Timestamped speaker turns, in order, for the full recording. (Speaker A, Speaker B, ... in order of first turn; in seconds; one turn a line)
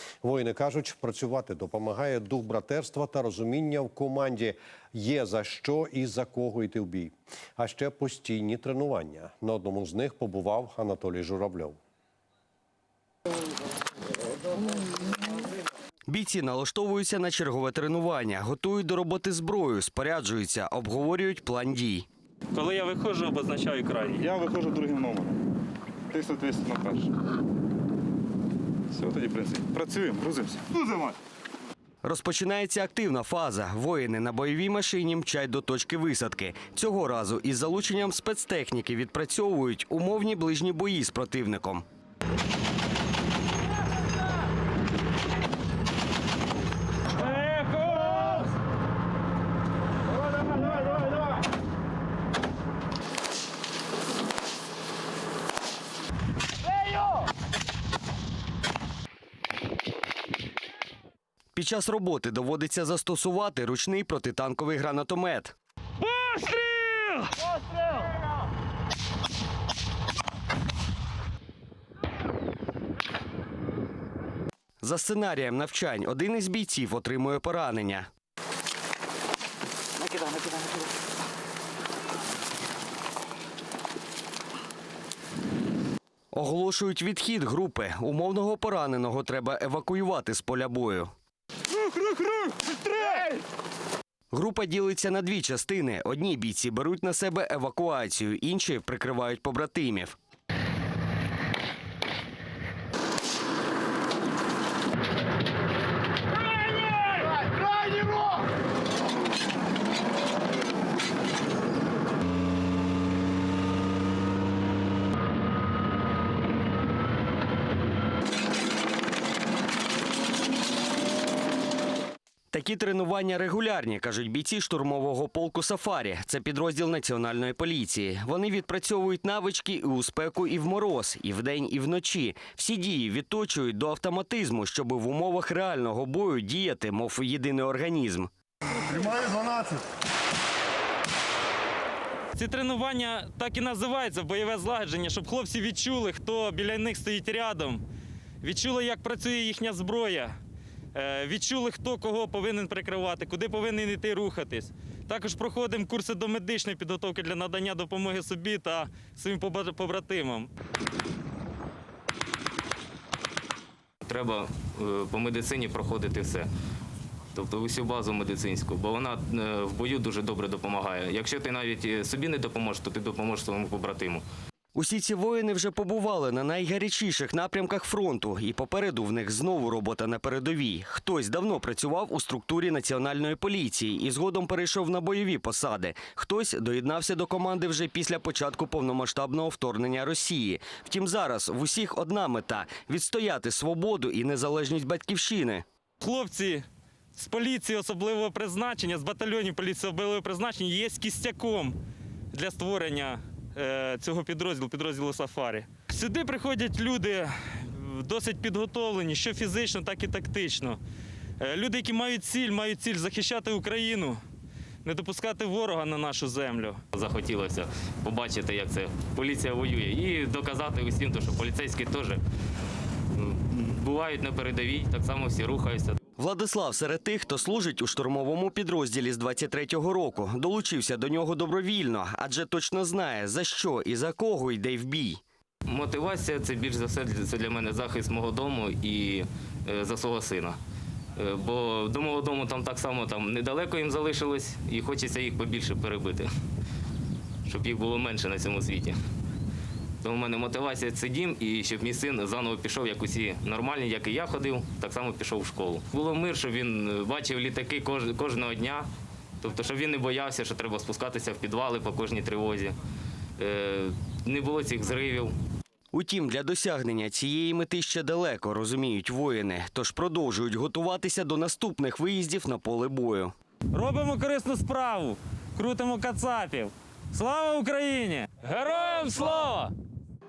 Speaker A: 0.2-11.8
Speaker B: 16.1-22.1
Speaker C: 22.5-24.2
Speaker D: 24.2-25.4
Speaker D: 26.1-27.1
Speaker D: 28.9-31.1
Speaker B: 32.0-41.8
Speaker C: 47.2-48.4
Speaker B: 61.5-65.5
Speaker C: 66.0-67.5
Speaker B: 74.8-78.1
Speaker B: 86.3-91.1
Speaker B: 94.3-100.2
Speaker B: 122.5-138.3
Speaker C: 142.3-147.8
Speaker C: 148.4-150.3
Speaker C: 150.9-160.5
Speaker E: 164.0-166.5
Speaker E: 167.3-174.2
Speaker B: 174.7-195.6
Speaker C: 196.0-201.8
Speaker C: 202.3-210.8
Speaker C: 211.4-214.2
Speaker C: 214.8-216.8
Speaker E: 216.9-222.2
Speaker E: 223.1-226.0
Speaker B: 226.2-235.2
Speaker E: 235.7-240.6
Speaker E: 241.2-246.3
Speaker E: 247.4-249.0
Speaker E: 250.0-258.9
Speaker E: 259.4-262.8
Speaker E: 263.4-265.3
Speaker B: 265.9-273.3
Speaker C: 273.7-279.7